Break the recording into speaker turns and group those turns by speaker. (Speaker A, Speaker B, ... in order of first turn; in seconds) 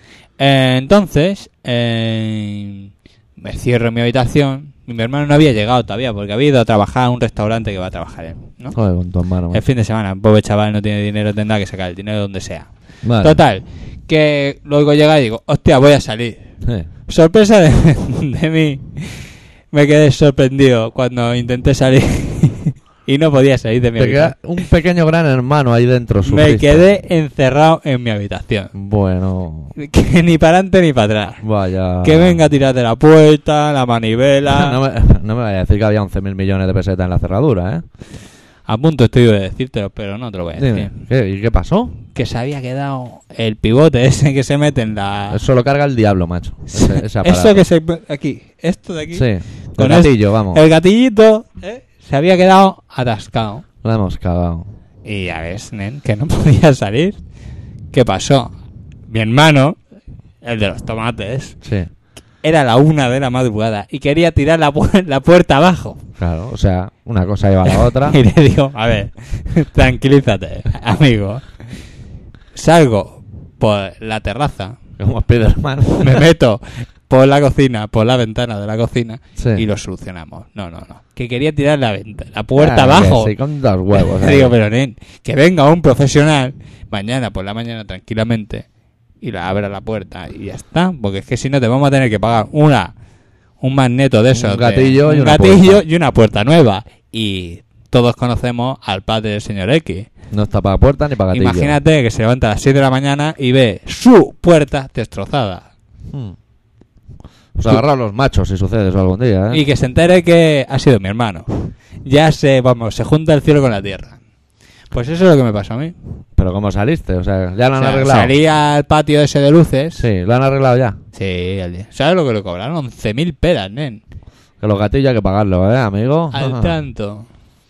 Speaker A: 0.4-8.8, 9.5-16.4, 17.1-24.4, 26.2-28.7, 29.8-31.4, 32.0-34.8, 38.6-40.9, 42.1-45.4, 46.7-53.6, 55.0-57.2, 57.9-58.5, 59.1-59.8, 60.4-61.5, 62.4-66.0, 68.0-71.8, 72.5-74.8, 76.0-83.3, 83.9-88.7, 89.2-92.9, 93.6-100.1, 101.3-105.7, 109.5-114.2, 114.9-115.9, 117.8-120.1, 121.1-124.0, 126.3-127.3
Speaker B: 8.7-9.6, 13.0-13.4, 24.0-26.8, 28.7-29.7, 31.4-32.4, 34.5-37.8, 40.6-42.0, 45.3-47.6, 49.1-50.6, 53.8-54.7, 61.6-61.9, 66.2-68.2, 75.0-76.2, 79.4-79.6, 82.5-84.5, 94.3-95.8, 100.3-101.8, 106.1-106.3, 107.5-109.6, 116.4-118.3, 120.0-121.0, 124.6-126.7